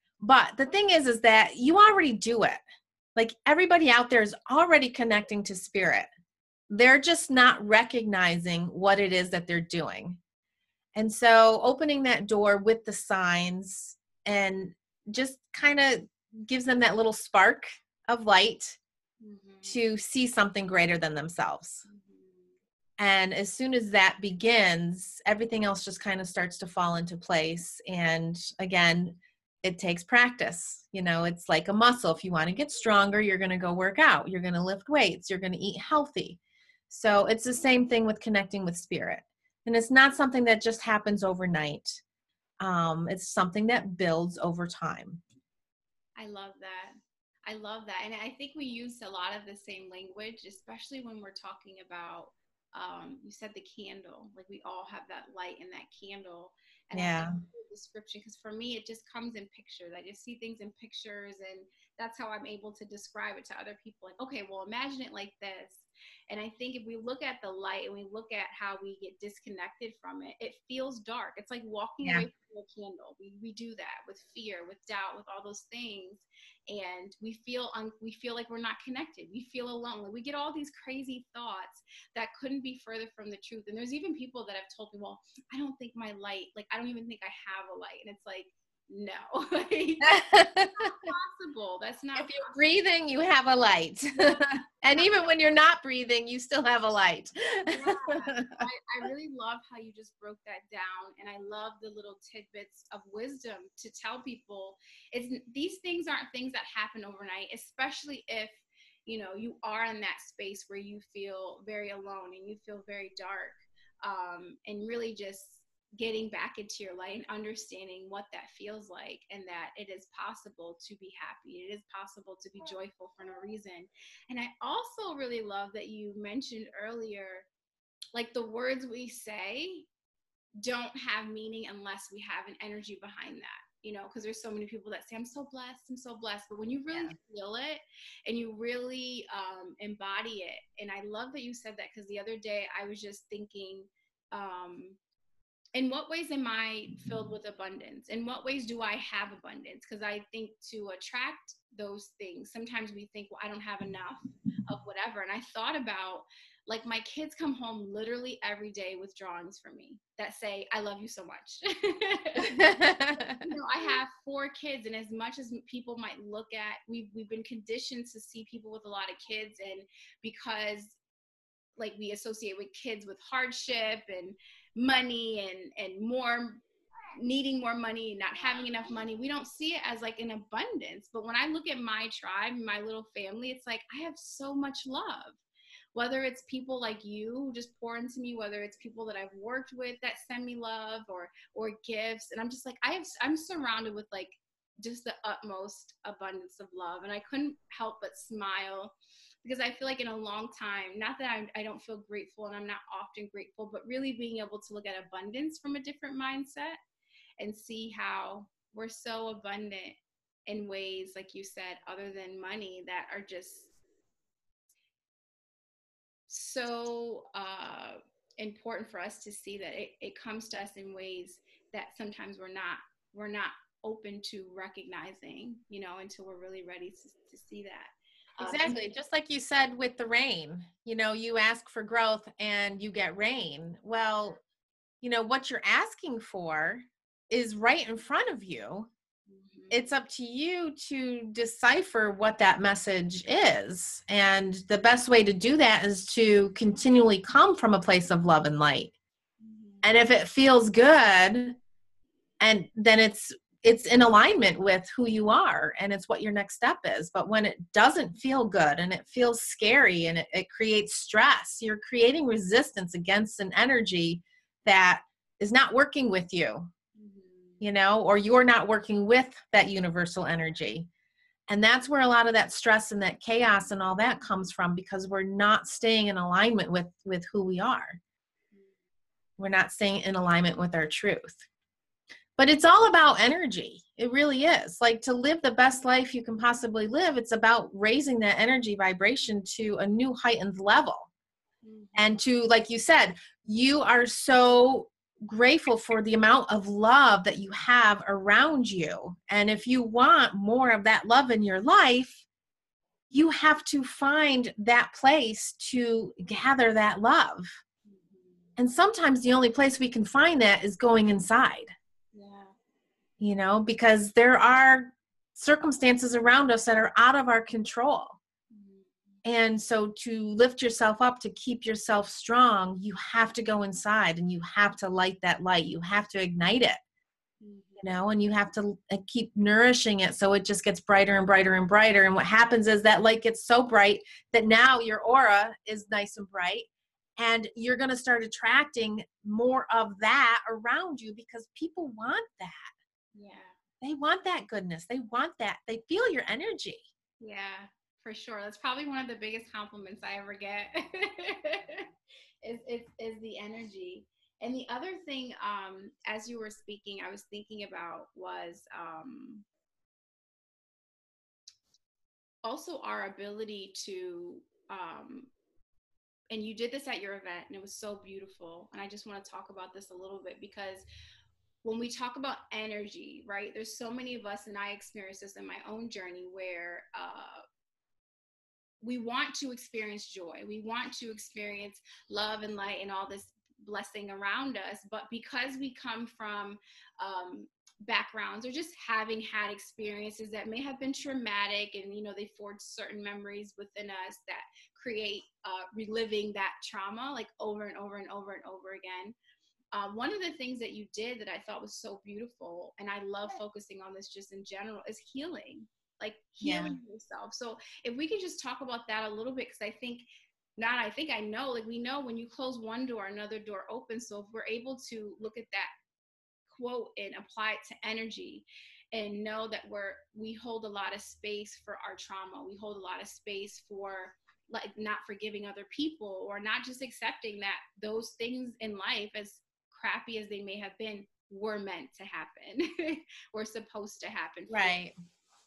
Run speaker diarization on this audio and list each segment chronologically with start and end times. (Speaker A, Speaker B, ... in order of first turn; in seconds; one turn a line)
Speaker A: 0.2-2.6
Speaker A: 3.2-6.1
Speaker A: 6.7-10.2
Speaker A: 11.0-18.8
Speaker B: 19.2-19.8
Speaker A: 19.7-21.8
Speaker B: 21.9-22.5
Speaker A: 23.0-36.4
Speaker A: 36.9-42.0
Speaker A: 42.6-45.2
Speaker B: 46.2-92.6
Speaker A: 56.9-57.4
Speaker A: 90.1-91.1
Speaker A: 92.2-98.6
Speaker B: 94.2-95.3
Speaker B: 97.7-127.5
Speaker B: 128.1-129.9
Speaker B: 130.6-145.0
Speaker B: 145.8-162.7
Speaker A: 162.4-163.5
Speaker B: 163.4-171.0
Speaker B: 171.8-176.6
Speaker B: 177.2-185.4
Speaker B: 185.9-206.8
Speaker B: 207.4-210.0
Speaker B: 210.5-213.7
Speaker B: 216.3-228.8
Speaker A: 228.4-234.4
Speaker A: 235.0-238.9
Speaker B: 239.3-239.9
Speaker A: 239.7-248.9
Speaker B: 249.4-249.9
Speaker A: 249.8-251.6
Speaker A: 252.4-266.7
Speaker B: 267.0-267.6
Speaker A: 267.6-270.9
Speaker A: 271.5-278.0
Speaker A: 279.4-281.4
Speaker A: 282.4-291.1
Speaker B: 291.6-292.1
Speaker A: 292.0-302.2
Speaker A: 303.1-307.6
Speaker B: 307.9-308.5
Speaker A: 308.6-311.7
Speaker B: 312.1-312.5
Speaker A: 313.2-318.2
Speaker B: 318.5-318.9
Speaker A: 319.2-326.8
Speaker B: 327.4-327.9
Speaker A: 327.8-342.7
Speaker B: 343.1-343.5
Speaker A: 343.8-346.8
Speaker B: 347.2-351.9
Speaker B: 352.4-359.4
Speaker B: 362.4-365.3
Speaker B: 366.3-370.9
Speaker B: 371.6-377.4
Speaker B: 378.8-399.1
Speaker B: 399.7-410.1
Speaker A: 406.4-406.8
Speaker B: 410.6-415.7
Speaker B: 416.5-434.8
Speaker A: 434.5-434.9